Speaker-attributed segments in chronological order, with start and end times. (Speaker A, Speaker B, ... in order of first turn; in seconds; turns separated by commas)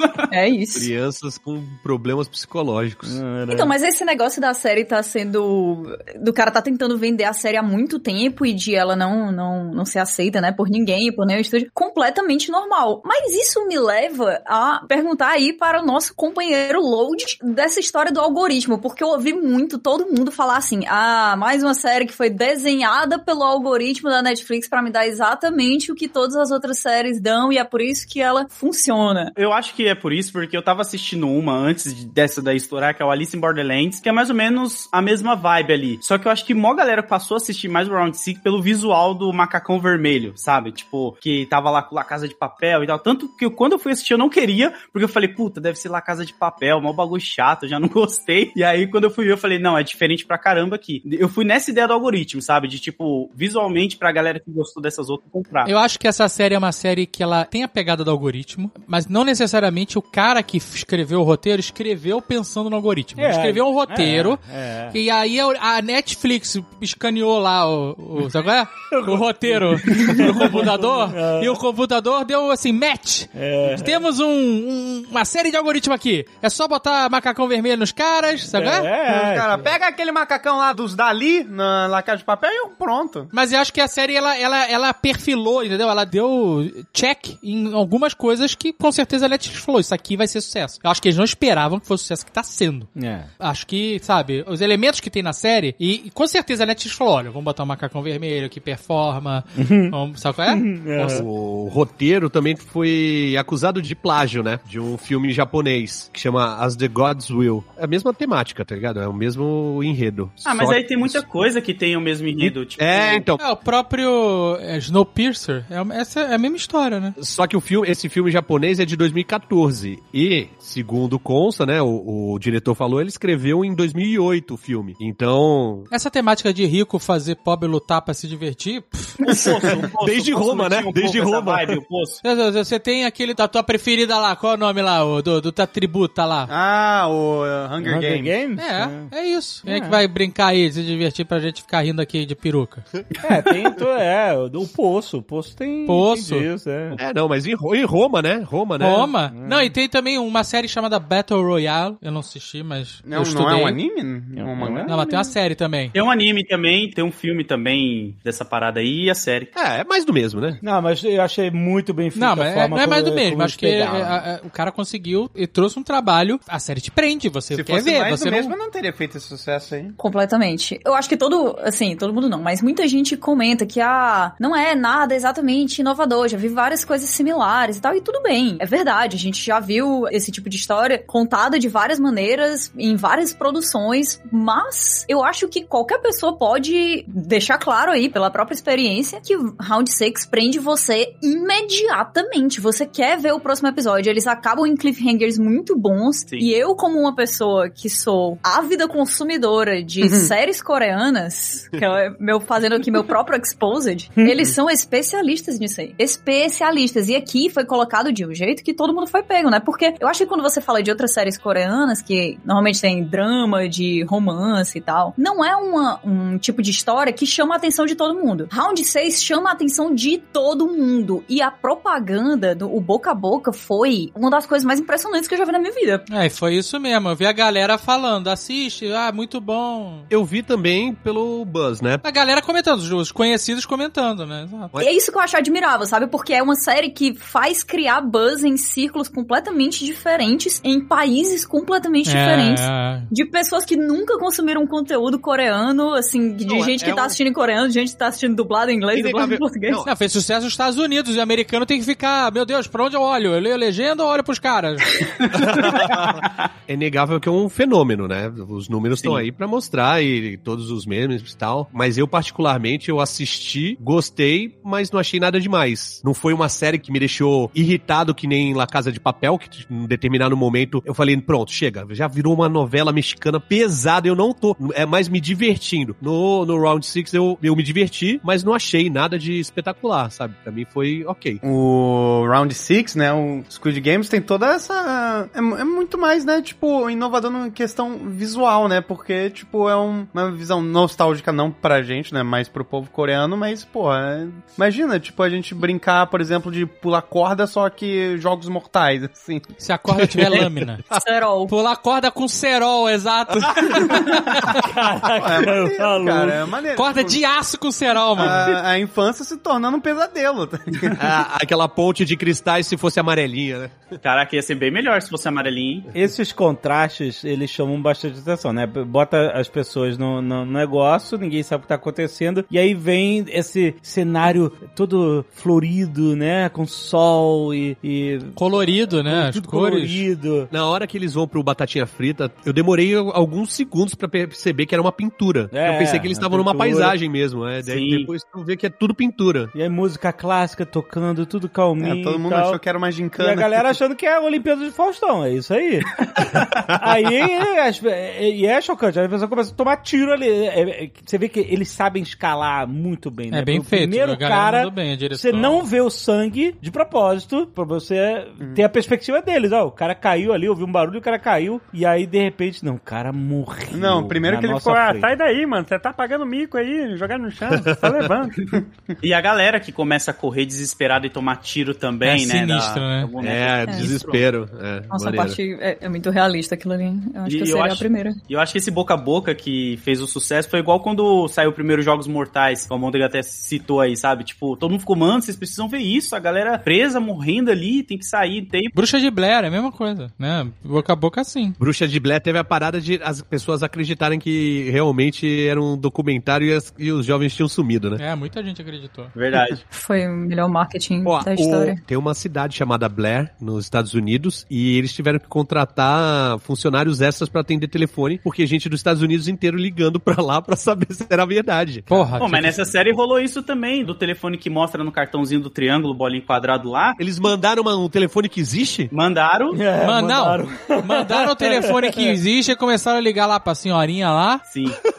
Speaker A: 0.3-0.9, Speaker B: 0.7-3.2, Speaker C: 3.0-3.7, Speaker A: 3.5-29.3, Speaker D: 29.4-55.7, Speaker E: 55.6-78.9, Speaker C: 63.2-65.0, Speaker C: 68.9-71.6, Speaker C: 73.3-74.0, Speaker C: 78.5-79.7, Speaker F: 79.1-83.3, Speaker E: 83.3-101.2, Speaker C: 92.9-93.3, Speaker C: 99.5-100.0, Speaker C: 100.5-101.3, Speaker B: 101.1-111.2, Speaker D: 110.4-113.3, Speaker B: 112.4-113.4, Speaker E: 113.4-117.1, Speaker B: 117.2-125.9, Speaker E: 125.9-129.2, Speaker D: 129.2-132.2, Speaker B: 129.8-131.8, Speaker E: 132.2-136.5, Speaker F: 136.5-138.3, Speaker C: 137.8-139.1, Speaker E: 138.6-142.8, Speaker C: 139.6-140.0, Speaker C: 143.2-147.0, Speaker E: 145.9-146.5, Speaker B: 146.9-149.1, Speaker E: 148.8-153.8, Speaker C: 149.3-149.7, Speaker F: 153.1-155.3, Speaker C: 154.4-154.9, Speaker E: 154.9-155.9, Speaker D: 155.9-159.5, Speaker B: 159.6-160.6, Speaker C: 160.6-164.2, Speaker E: 162.1-168.6, Speaker F: 167.5-169.9, Speaker A: 170.0-226.1, Speaker F: 200.0-200.3, Speaker E: 226.1-230.1, Speaker B: 230.1-232.0, Speaker E: 232.0-234.8, Speaker A: 234.8-249.9, Speaker E: 242.1-243.1, Speaker B: 246.5-247.2, Speaker B: 248.9-249.9, Speaker E: 249.8-254.9, Speaker D: 255.2-256.3, Speaker B: 255.3-281.4, Speaker D: 259.0-259.2, Speaker F: 281.4-299.5, Speaker E: 299.6-300.9, Speaker B: 300.1-300.4, Speaker A: 300.9-301.5, Speaker E: 301.5-304.6, Speaker C: 304.5-306.4, Speaker F: 305.2-307.2, Speaker E: 306.7-308.5, Speaker F: 308.1-311.0, Speaker B: 310.9-313.9, Speaker D: 314.0-315.9, Speaker C: 315.9-330.5, Speaker E: 328.3-330.1, Speaker B: 330.5-339.5, Speaker C: 335.5-336.9, Speaker D: 337.6-338.1, Speaker C: 339.5-342.6, Speaker F: 341.8-343.7, Speaker C: 343.2-346.0, Speaker C: 346.7-365.1, Speaker E: 353.3-355.7, Speaker F: 363.7-368.9, Speaker B: 367.5-367.9, Speaker D: 369.0-374.2, Speaker E: 372.0-373.1, Speaker B: 373.2-375.4, Speaker A: 374.9-378.2, Speaker D: 377.2-388.7, Speaker E: 388.7-391.6, Speaker B: 391.6-398.0, Speaker E: 398.0-399.1, Speaker D: 399.1-399.6, Speaker A: 399.7-401.8, Speaker B: 401.1-412.1, Speaker E: 411.9-412.6, Speaker D: 412.2-417.0, Speaker B: 417.0-418.9, Speaker D: 418.9-419.6, Speaker C: 419.5-422.2, Speaker E: 419.8-424.4, Speaker D: 424.5-424.8